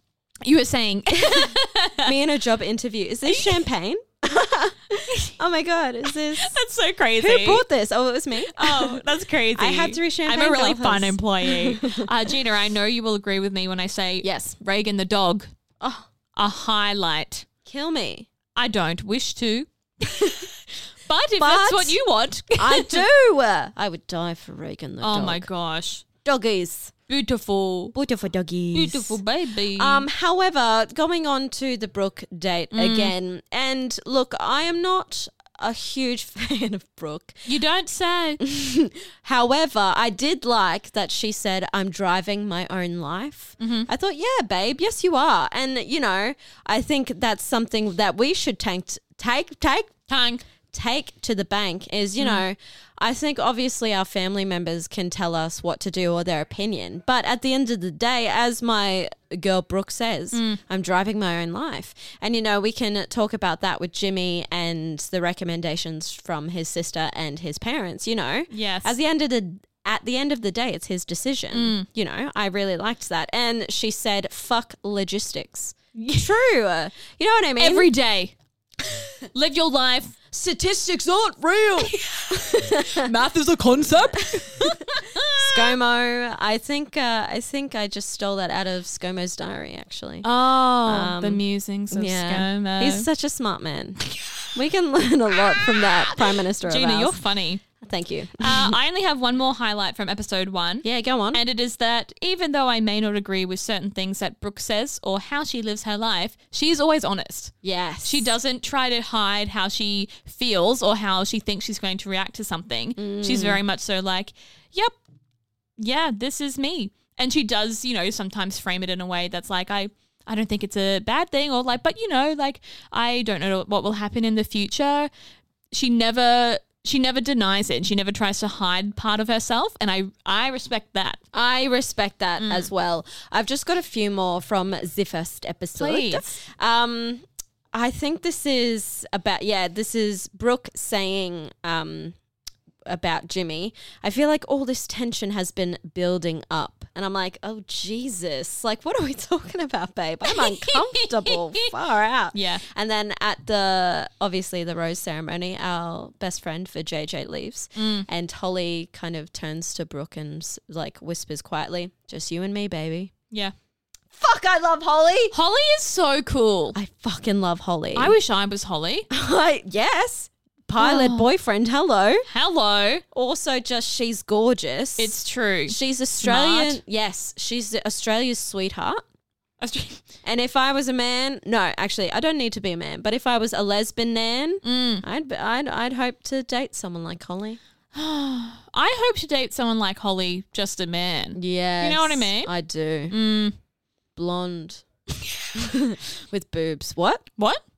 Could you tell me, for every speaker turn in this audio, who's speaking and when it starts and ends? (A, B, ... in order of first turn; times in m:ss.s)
0:00.4-0:02.1 A
0:01.2-0:06.6 B
0:03.3-0:03.6 A
0:06.3-0:07.6 A
0:07.2-0:09.0 B
0:08.5-0:15.5 A
0:09.6-0:12.1 B
0:14.2-0:14.5 B
0:15.8-0:16.1 B
0:16.4-0:17.5 A
0:17.6-0:18.3 B
0:18.6-0:19.7 A
0:21.1-0:23.0 A
0:21.4-0:22.0 B
0:22.6-0:25.5 B
0:25.0-0:26.0 A
0:26.2-0:26.9 B
0:27.1-0:28.0 A
0:27.9-0:29.2 B
0:28.7-0:30.1 A
0:29.8-0:37.5 B
0:32.7-0:33.1 A
0:37.5-0:38.4 A
0:38.4-0:49.9 B
0:43.6-0:43.9 A
0:50.1-0:50.4 A
0:50.7-1:17.9 B
1:00.3-1:00.6 A
1:08.5-1:09.0 A
1:11.5-1:11.9 A
1:16.0-1:16.3 A
1:17.6-1:18.4 A
1:19.3-1:20.2 A
1:20.3-1:23.1 B
1:21.8-1:25.8 A
1:24.1-1:24.8 B
1:25.4-1:30.3 B
1:30.2-1:33.1 A
1:30.8-1:34.0 B
1:34.5-1:37.2 B
1:35.8-1:37.6 A
1:37.8-1:38.8 B
1:38.4-1:55.0 A
1:40.8-1:41.4 B
1:47.6-1:48.3 B
1:53.0-1:53.6 B
1:55.8-2:05.1 A
2:05.7-2:11.2 A
2:11.3-2:22.2 B
2:12.4-2:12.7 A
2:15.8-2:16.4 A
2:22.9-2:43.1 B
2:30.3-2:31.7 A
2:32.3-2:32.6 A
2:37.8-2:38.1 A
2:44.1-2:45.3 B
2:45.3-2:46.8 A
2:46.8-2:48.2 B
2:48.0-2:49.1 A
2:49.1-2:52.3 B
2:50.8-2:51.3 A
2:52.3-2:53.0 A
2:53.1-2:59.0 B
2:55.0-2:56.8 A
2:59.6-3:00.0 A
3:00.2-3:07.6 B
3:04.6-3:05.0 A
3:07.9-3:12.5 A
3:11.4-3:13.1 B
3:13.1-3:13.6 A
3:14.2-3:14.8 B
3:15.6-3:17.3 B